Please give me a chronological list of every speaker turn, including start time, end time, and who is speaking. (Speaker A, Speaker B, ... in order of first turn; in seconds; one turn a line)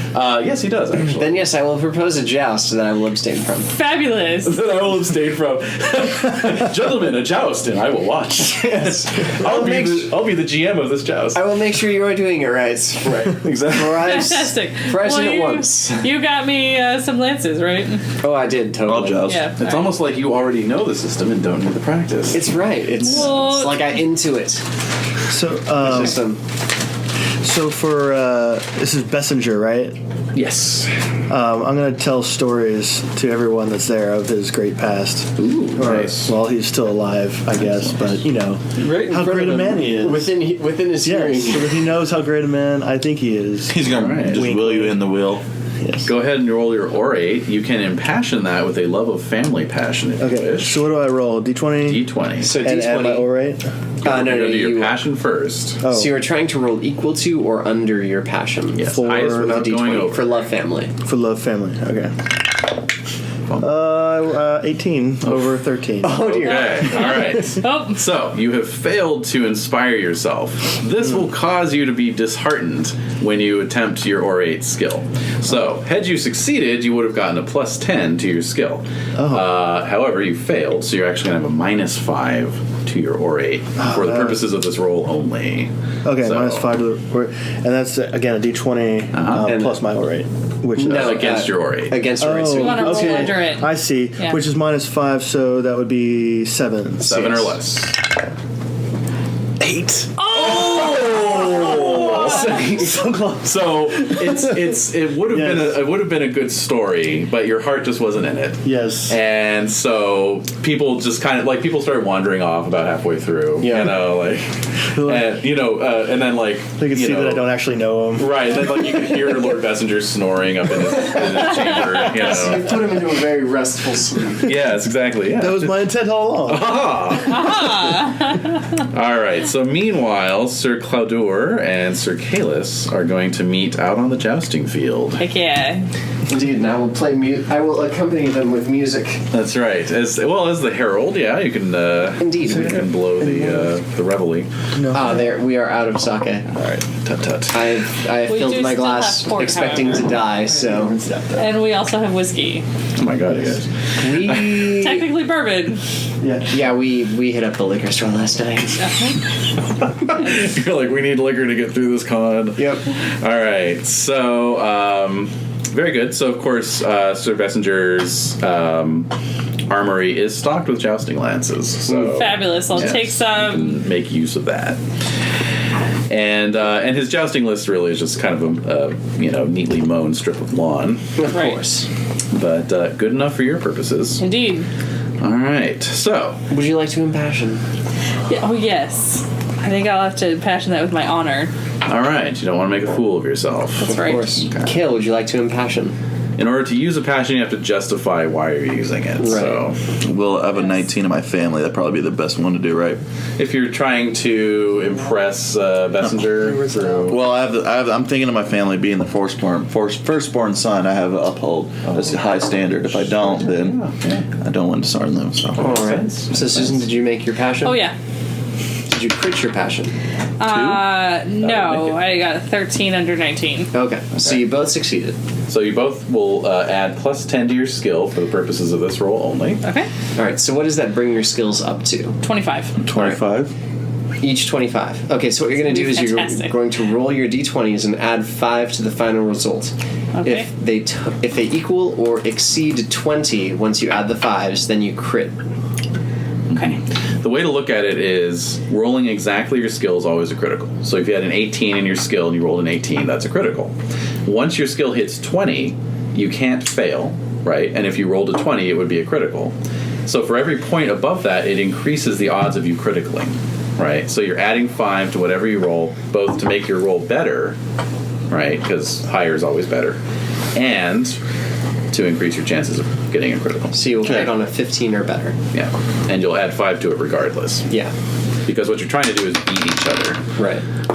Speaker A: 0.1-1.4
Speaker B: 0.9-3.7
Speaker C: 3.7-4.6
Speaker A: 4.4-11.4
Speaker B: 8.5-10.1
Speaker B: 11.3-16.1
Speaker A: 13.0-14.2
Speaker C: 13.9-18.0
Speaker B: 18.2-19.4
Speaker D: 18.8-19.5
Speaker C: 19.2-20.0
Speaker A: 19.5-22.5
Speaker B: 22.3-24.6
Speaker C: 23.0-23.9
Speaker E: 25.3-26.2
Speaker B: 25.8-26.4
Speaker E: 27.4-30.0
Speaker A: 30.3-30.9
Speaker E: 31.3-40.4
Speaker A: 35.4-36.3
Speaker B: 38.8-41.9
Speaker E: 41.0-45.1
Speaker D: 43.7-45.4
Speaker A: 43.9-44.4
Speaker E: 45.8-46.1
Speaker A: 46.0-50.8
Speaker E: 50.2-52.0
Speaker A: 51.8-52.5
Speaker B: 52.4-53.3
Speaker E: 52.5-53.6
Speaker A: 54.0-55.8
Speaker B: 54.0-55.0
Speaker E: 55.8-56.2
Speaker B: 55.9-60.9
Speaker A: 58.7-60.4
Speaker E: 58.9-59.7
Speaker E: 61.0-62.3
Speaker E: 63.6-66.2
Speaker A: 65.2-65.5
Speaker B: 66.0-66.9
Speaker A: 66.3-86.7
Speaker C: 66.4-68.0
Speaker E: 79.2-79.5
Speaker E: 83.8-84.4
Speaker E: 86.0-91.3
Speaker A: 89.1-89.5
Speaker B: 89.5-89.8
Speaker A: 90.8-92.0
Speaker B: 90.8-93.4
Speaker E: 92.2-97.5
Speaker C: 92.5-94.4
Speaker A: 97.0-98.0
Speaker A: 99.6-114.5
Speaker C: 100.2-102.6
Speaker E: 105.3-105.8
Speaker E: 108.6-109.2
Speaker B: 113.6-114.0
Speaker E: 114.9-115.4
Speaker A: 115.0-117.5
Speaker E: 116.8-119.2
Speaker A: 118.2-122.8
Speaker B: 122.1-124.5
Speaker A: 124.4-125.8
Speaker E: 125.3-127.1
Speaker A: 126.5-127.9
Speaker C: 127.3-128.3
Speaker A: 128.9-135.2
Speaker C: 135.2-135.9
Speaker B: 136.3-139.2
Speaker A: 139.3-144.5
Speaker B: 142.2-142.9
Speaker E: 142.4-143.7
Speaker E: 144.7-145.3
Speaker B: 144.9-146.4
Speaker A: 146.5-147.7
Speaker B: 147.5-150.9
Speaker C: 148.2-150.2
Speaker E: 150.2-151.6
Speaker C: 151.3-152.6
Speaker A: 152.9-154.7
Speaker B: 154.0-155.1
Speaker C: 154.7-155.8
Speaker E: 156.2-156.7
Speaker B: 156.5-158.7
Speaker C: 158.8-159.3
Speaker A: 160.0-169.1
Speaker B: 162.6-162.8
Speaker A: 169.7-174.8
Speaker B: 171.9-172.2
Speaker C: 172.1-173.8
Speaker A: 176.1-181.0
Speaker B: 181.2-181.9
Speaker C: 181.3-181.6
Speaker A: 182.3-184.2
Speaker C: 184.2-184.7
Speaker A: 185.2-186.4
Speaker B: 186.5-187.6
Speaker C: 188.3-191.5
Speaker A: 191.8-194.8
Speaker C: 193.8-194.3
Speaker B: 193.8-195.9
Speaker A: 196.4-199.8
Speaker B: 199.2-199.7
Speaker D: 200.0-203.0
Speaker C: 200.6-200.9
Speaker A: 203.4-207.2
Speaker E: 206.3-207.2
Speaker D: 207.1-213.8
Speaker A: 211.9-212.2
Speaker A: 212.9-214.2
Speaker D: 214.3-215.8
Speaker B: 215.6-217.8
Speaker A: 215.6-216.8
Speaker C: 217.6-217.9
Speaker B: 218.9-219.9
Speaker C: 220.4-223.7
Speaker A: 220.5-220.8
Speaker A: 221.4-222.0
Speaker B: 223.7-225.2
Speaker A: 224.2-224.5
Speaker A: 225.5-229.6
Speaker C: 229.6-229.9
Speaker B: 230.2-232.2
Speaker C: 232.2-232.7
Speaker D: 232.8-233.5
Speaker B: 234.2-245.3
Speaker C: 235.6-236.5
Speaker C: 240.1-240.5
Speaker A: 246.5-253.7
Speaker C: 246.5-246.8
Speaker A: 254.2-259.5
Speaker A: 260.1-267.6
Speaker A: 268.3-270.0
Speaker A: 270.5-271.2
Speaker A: 271.9-274.2
Speaker B: 273.7-275.4
Speaker A: 275.5-277.7
Speaker A: 278.4-280.2
Speaker B: 280.4-280.6